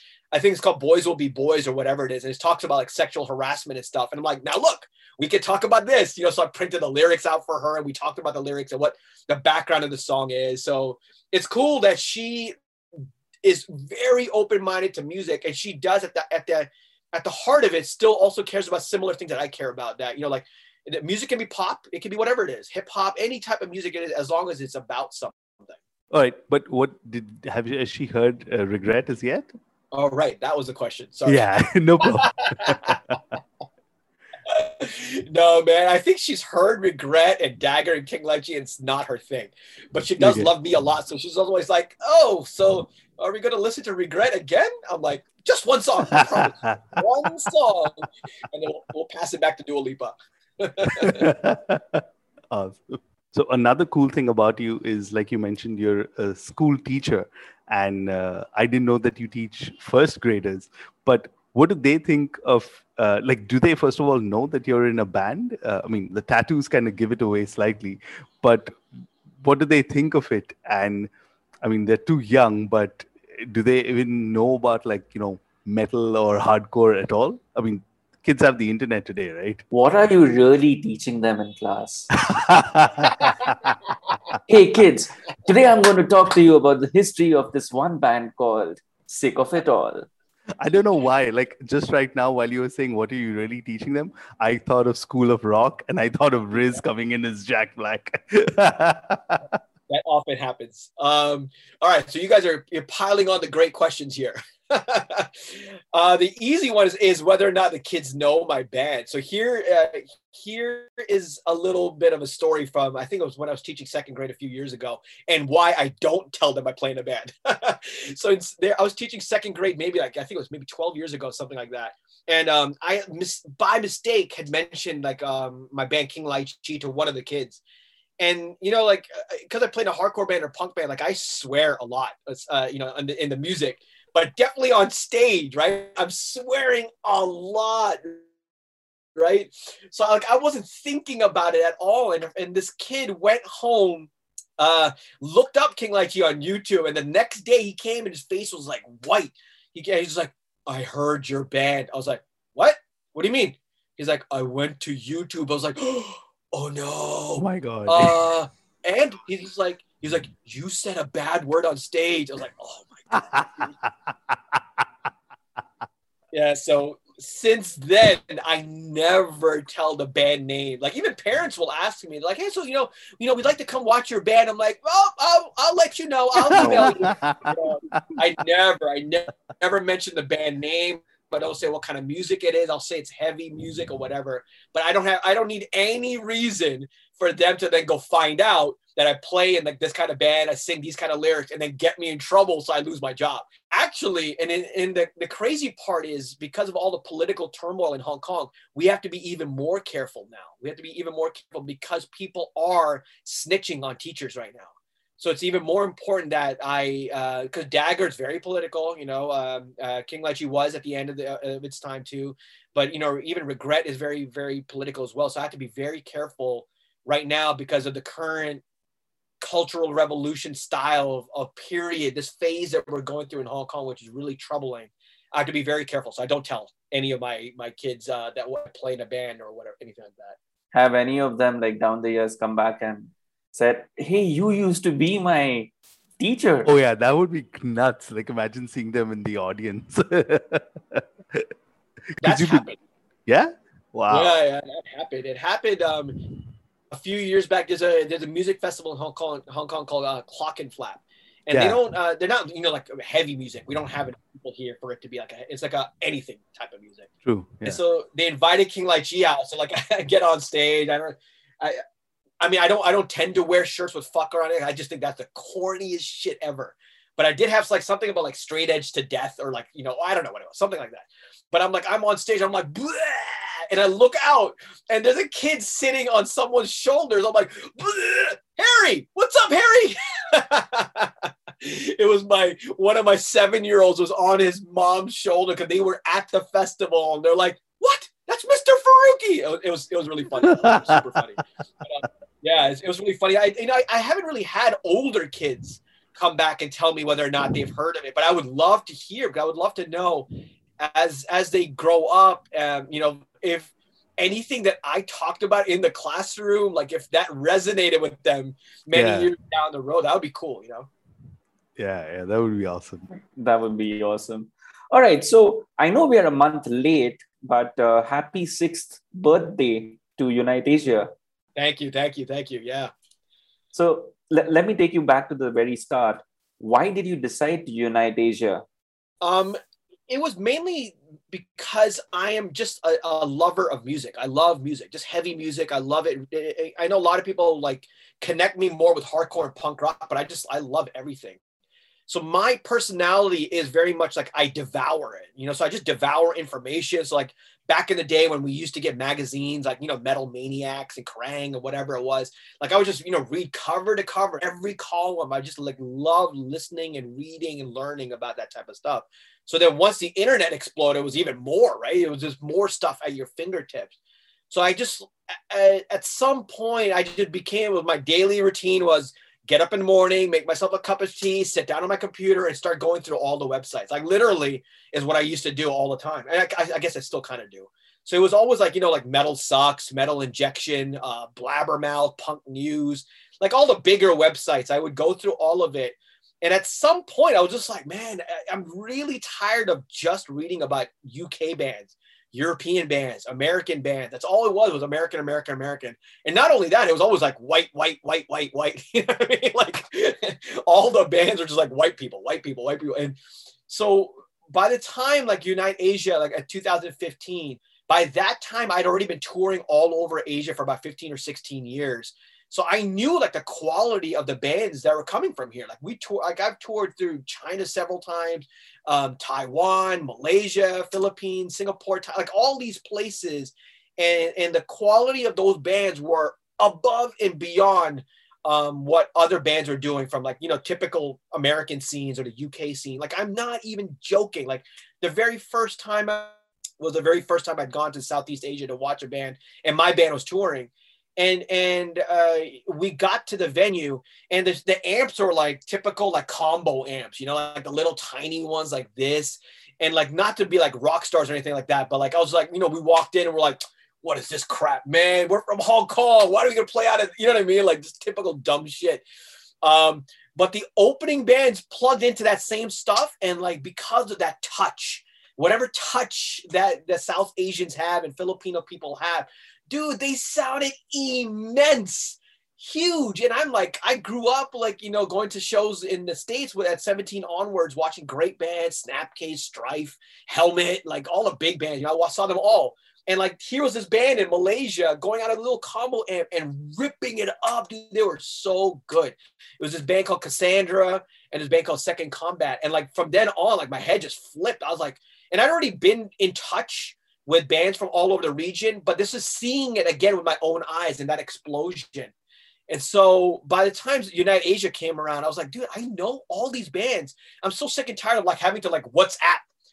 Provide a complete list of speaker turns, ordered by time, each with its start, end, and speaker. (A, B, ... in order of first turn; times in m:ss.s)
0:00.3-0:12.5 A
0:13.4-0:25.8 A
0:26.1-0:29.5 B
0:29.9-0:31.4 A
0:31.2-0:33.2 B
0:32.0-0:33.0 A
0:34.4-0:51.3 A
0:40.2-0:40.5 B
0:46.2-0:46.8 B
0:51.0-1:08.8 B
1:09.4-1:11.1 B
1:11.6-1:19.6 B
1:19.7-1:22.1 C
1:22.3-1:23.7 B
1:24.5-1:30.1 C
1:30.6-1:39.4 B
1:39.9-2:07.6 A
2:08.2-2:18.2 A
2:19.2-2:43.7 A
2:37.4-2:38.2 B
2:43.2-2:44.6 B
2:46.3-3:38.6 A
2:56.4-2:58.0 B
2:56.6-2:57.0 C
3:39.4-3:50.4 A
3:50.7-3:56.7 C
3:56.6-4:01.5 B
4:02.2-4:02.6 B
4:02.2-4:02.8 A
4:03.3-4:04.4 B
4:04.1-4:06.2 A
4:06.9-4:17.1 A
4:11.5-4:11.8 B
4:17.2-4:17.8 B
4:17.6-4:21.8 A
4:22.4-5:00.3 A
4:50.5-4:50.8 B
5:00.8-5:10.9 A
5:08.9-5:09.3 B
5:11.8-5:13.1 B
5:13.3-5:21.1 C
5:21.6-5:22.9 A
5:23.7-5:28.6 C
5:29.2-5:29.6 A
5:30.1-5:41.4 A
5:42.1-6:03.9 A
6:04.5-7:39.0 A
7:39.6-8:22.1 A
8:22.7-8:29.4 A